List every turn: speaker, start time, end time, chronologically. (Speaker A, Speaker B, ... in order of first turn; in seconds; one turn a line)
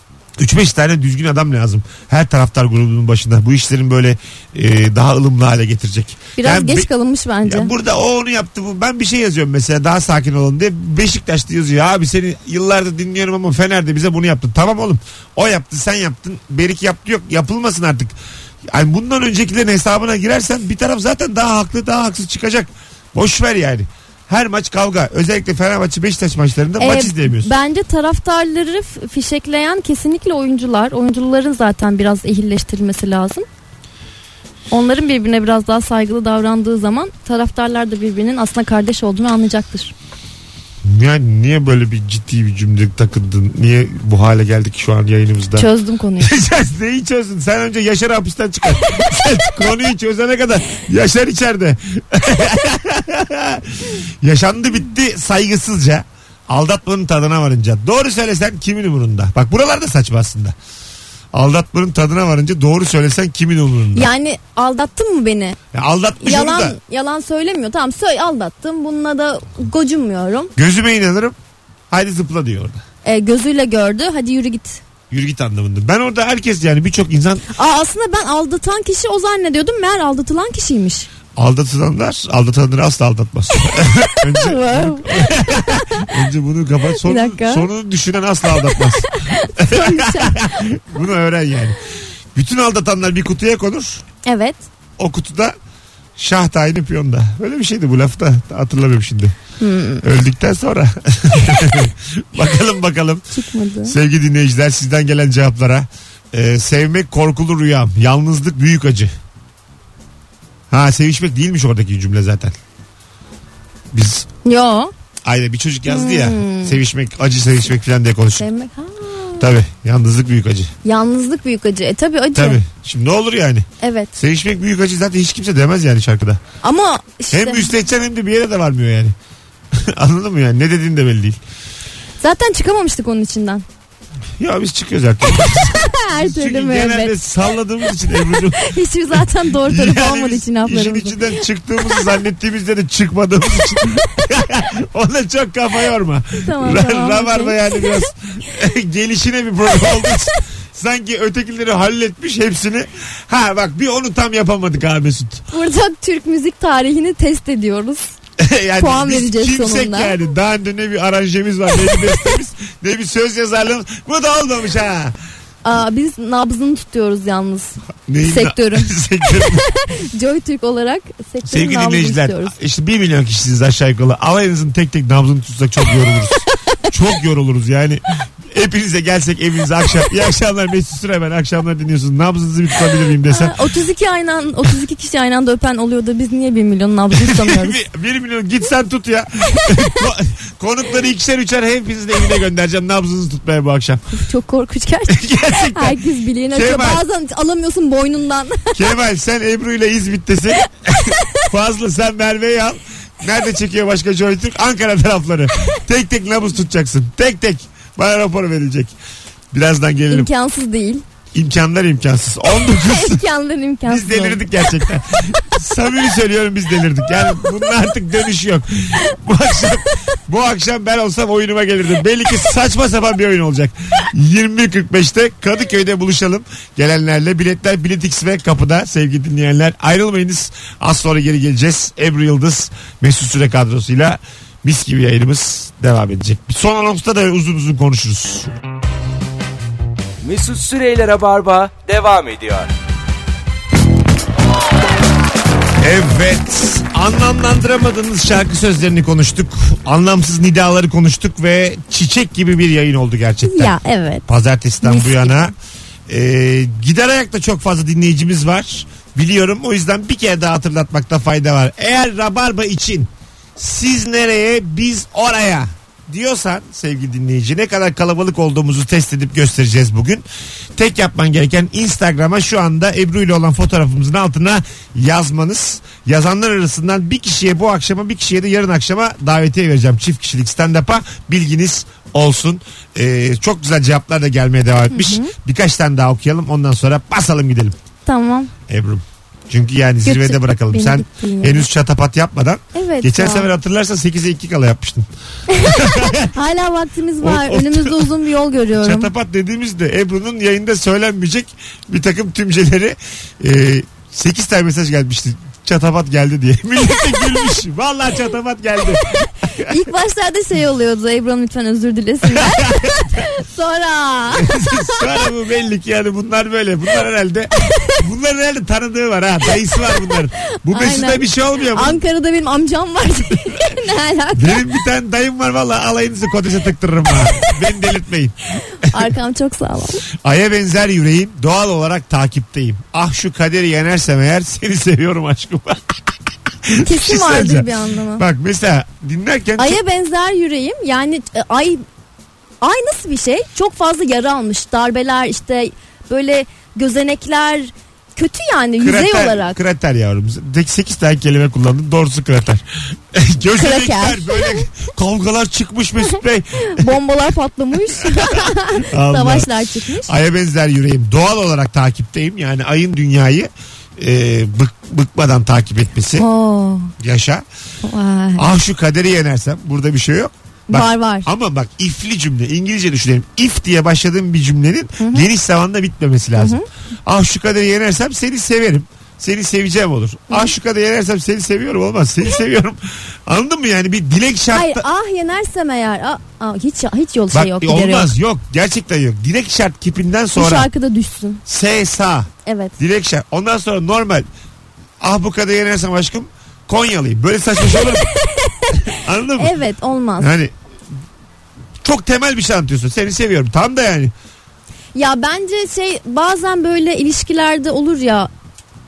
Speaker A: 0.4-6.9
Speaker B: 6.4-7.7
Speaker A: 7.4-18.1
Speaker A: 18.7-27.5
Speaker B: 26.8-33.5
Speaker B: 34.7-39.9
Speaker A: 40.8-60.5
Speaker B: 45.5-46.3
Speaker A: 61.3-64.1
Speaker B: 63.9-65.6
Speaker A: 65.7-66.8
Speaker B: 66.2-70.5
Speaker A: 70.5-71.3
Speaker A: 71.9-72.8
Speaker B: 73.0-74.8
Speaker A: 75.1-77.4
Speaker B: 77.5-81.1
Speaker A: 81.3-91.8
Speaker B: 84.3-86.1
Speaker B: 87.0-87.7
Speaker B: 88.8-90.6
Speaker A: 92.3-94.0
Speaker B: 94.2-94.7
Speaker A: 95.0-95.5
Speaker A: 96.2-99.3
Speaker B: 99.6-100.0
Speaker A: 100.0-103.2
Speaker B: 103.3-104.0
Speaker A: 103.8-109.1
Speaker A: 110.7-112.5
Speaker A: 113.9-114.3
Speaker B: 114.4-114.9
Speaker A: 115.2-118.5
Speaker B: 115.9-116.8
Speaker B: 118.4-119.5
Speaker A: 119.4-120.7
Speaker B: 120.8-122.6
Speaker A: 122.3-126.4
Speaker B: 123.8-124.1
Speaker B: 126.6-127.7
Speaker A: 127.3-129.1
Speaker A: 129.7-131.4
Speaker B: 132.2-133.6
Speaker A: 134.4-138.7
Speaker B: 135.6-137.2
Speaker B: 138.6-142.1
Speaker A: 139.6-155.5
Speaker B: 146.4-147.6
Speaker B: 155.5-158.1
Speaker A: 158.4-165.2
Speaker B: 158.8-160.2
Speaker B: 165.6-172.5
Speaker A: 168.1-169.6
Speaker A: 171.4-183.5
Speaker B: 183.3-187.8
Speaker A: 187.1-194.0
Speaker B: 194.1-198.8
Speaker A: 195.1-197.0
Speaker A: 198.7-208.9
Speaker A: 209.5-210.3
Speaker B: 210.1-211.0
Speaker A: 211.3-213.2
Speaker B: 212.8-214.7
Speaker A: 213.8-238.5
Speaker C: 240.2-242.7
Speaker A: 245.8-253.7
Speaker B: 253.4-254.2
Speaker A: 254.3-255.5
Speaker B: 254.8-255.5
Speaker A: 256.1-270.2
Speaker A: 270.7-287.8
Speaker B: 284.9-285.3
Speaker B: 288.1-288.5
Speaker A: 288.7-296.3
Speaker B: 290.0-291.7
Speaker B: 292.7-293.5
Speaker B: 295.5-299.1
Speaker A: 297.2-298.1
Speaker A: 298.8-309.7
Speaker B: 309.6-315.2
Speaker A: 312.2-313.2
Speaker A: 314.3-322.0
Speaker B: 319.8-320.1
Speaker B: 320.7-324.7
Speaker A: 324.3-329.1
Speaker B: 328.7-330.0
Speaker A: 330.2-336.0
Speaker A: 336.6-339.8
Speaker B: 336.8-338.2
Speaker B: 339.6-341.8
Speaker B: 342.6-349.6
Speaker A: 348.8-356.9
Speaker B: 353.6-354.6
Speaker B: 356.6-360.1
Speaker A: 358.0-359.5
Speaker A: 360.0-366.2
Speaker B: 366.2-366.9
Speaker A: 367.0-367.4
Speaker B: 367.8-368.4
Speaker A: 368.4-384.9
Speaker B: 370.7-371.3
Speaker B: 375.0-375.2
Speaker B: 376.4-376.6
Speaker B: 384.5-388.1
Speaker A: 387.3-390.7
Speaker B: 390.3-391.4
Speaker A: 391.4-394.3
Speaker B: 392.4-392.7
Speaker A: 395.0-398.0
Speaker B: 397.8-400.3
Speaker A: 398.9-399.5
Speaker A: 400.2-400.5
Speaker A: 401.8-404.1
Speaker B: 404.9-408.3